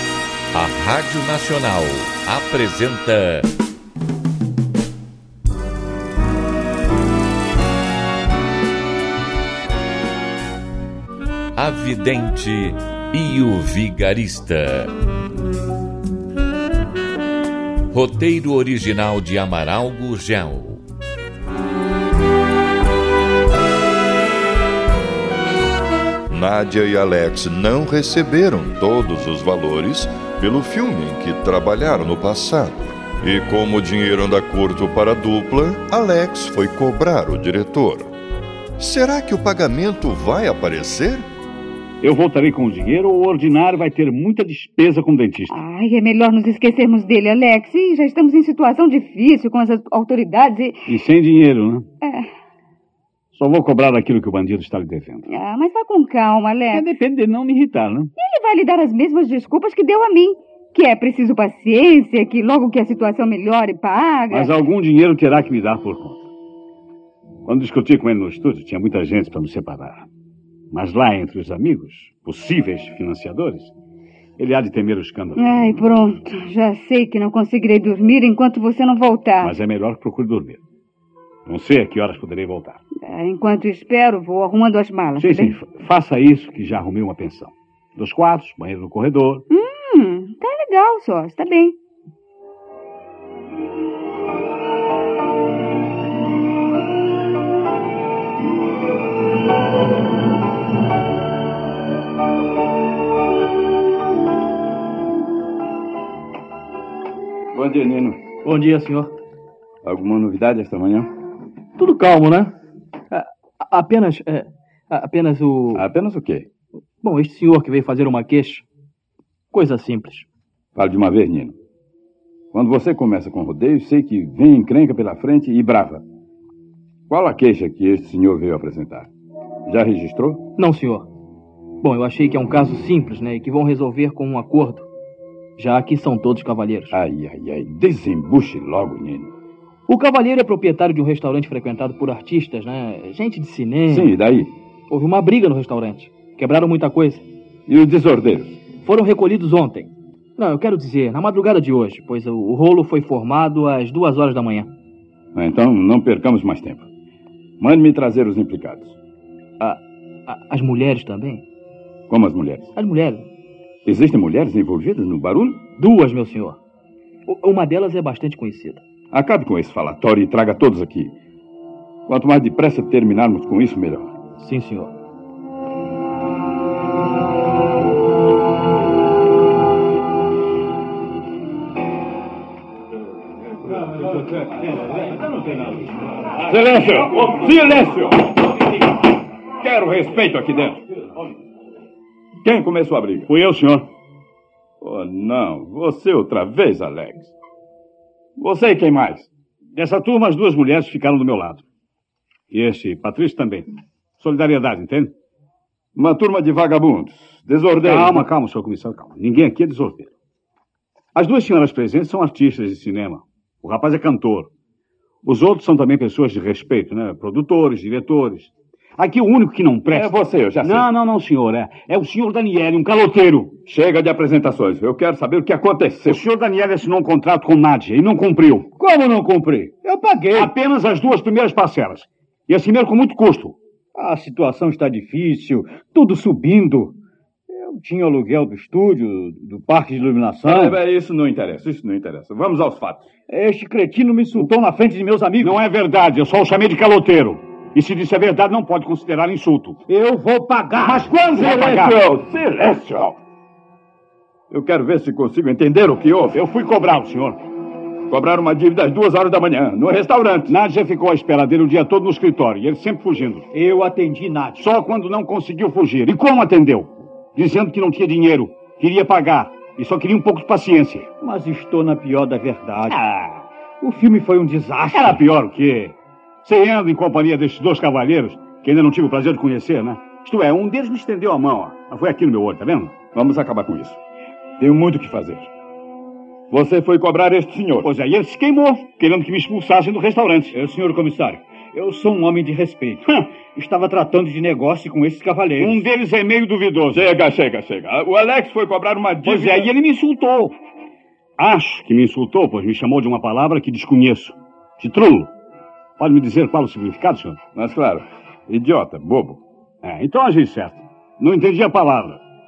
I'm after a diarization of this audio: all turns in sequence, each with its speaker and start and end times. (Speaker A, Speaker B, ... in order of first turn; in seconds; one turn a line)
Speaker A: 0.5-3.5
Speaker A: 11.6-14.9
Speaker A: 17.9-20.8
Speaker B: 26.3-38.1
Speaker B: 38.8-41.3
Speaker C: 42.0-45.6
Speaker D: 45.5-50.9
Speaker C: 50.9-51.9
Speaker D: 52.0-52.3
Speaker C: 53.3-55.3
Speaker D: 55.3-56.9
Speaker C: 56.7-58.1
Speaker D: 58.2-64.5
Speaker C: 64.3-66.3
Speaker C: 67.5-70.1
Speaker C: 70.7-73.7
Speaker C: 74.4-75.4
Speaker D: 75.4-79.6
Speaker C: 79.4-80.6
Speaker C: 81.5-82.8
Speaker D: 83.0-85.6
Speaker C: 85.2-89.5
Speaker D: 89.5-91.8
Speaker E: 107.5-108.2
Speaker F: 108.4-109.1
Speaker E: 109.8-111.1
Speaker F: 111.8-112.5
Speaker F: 113.1-115.8
Speaker E: 115.8-116.5
Speaker F: 117.0-118.7
Speaker F: 119.5-120.3
Speaker E: 120.8-121.6
Speaker E: 122.5-126.0
Speaker E: 127.1-129.1
Speaker E: 129.7-130.5
Speaker F: 130.6-131.1
Speaker F: 131.8-134.9
Speaker F: 135.6-137.0
Speaker E: 136.9-139.3
Speaker F: 139.9-144.2
Speaker E: 143.9-144.5
Speaker F: 144.9-147.2
Speaker E: 147.7-148.6
Speaker F: 148.8-154.7
Speaker E: 155.3-156.9
Speaker E: 157.6-159.0
Speaker F: 159.6-161.4
Speaker E: 162.1-162.7
Speaker F: 162.8-163.3
Speaker E: 163.8-165.7
Speaker F: 165.8-166.6
Speaker F: 167.3-168.8
Speaker E: 169.1-171.2
Speaker E: 172.1-174.1
Speaker F: 174.4-174.9
Speaker E: 186.4-188.4
Speaker E: 189.6-190.8
Speaker E: 192.4-193.3
Speaker C: 193.3-193.9
Speaker E: 194.8-197.3
Speaker E: 198.4-199.3
Speaker C: 199.8-201.6
Speaker C: 202.5-203.7
Speaker C: 204.2-205.1
Speaker E: 205.9-208.3
Speaker C: 207.8-210.1
Speaker C: 211.2-214.5
Speaker C: 215.2-223.6
Speaker E: 219.9-220.9
Speaker E: 223.7-226.2
Speaker C: 226.1-228.7
Speaker G: 228.8-230.5
Speaker C: 230.4-233.6
Speaker G: 234.0-236.9
Speaker G: 237.8-240.8
Speaker E: 240.4-243.1
Speaker G: 243.3-245.5
Speaker C: 245.4-249.8
Speaker G: 249.9-251.3
Speaker C: 251.3-252.0
Speaker E: 251.3-253.2
Speaker E: 254.5-256.4
Speaker C: 256.3-257.4
Speaker E: 258.1-260.6
Speaker C: 260.5-263.5
Speaker G: 263.6-264.6
Speaker C: 264.6-271.1
Speaker G: 271.2-272.9
Speaker C: 272.9-273.4
Speaker G: 273.8-275.2
Speaker C: 274.9-282.9
Speaker E: 283.1-284.0
Speaker E: 284.6-285.5
Speaker E: 286.5-287.9
Speaker C: 287.8-290.6
Speaker G: 290.6-293.0
Speaker G: 293.6-295.9
Speaker C: 295.6-297.1
Speaker E: 296.9-299.7
Speaker C: 299.2-300.5
Speaker C: 301.4-305.3
Speaker C: 306.0-307.4
Speaker E: 307.5-309.4
Speaker C: 309.8-312.2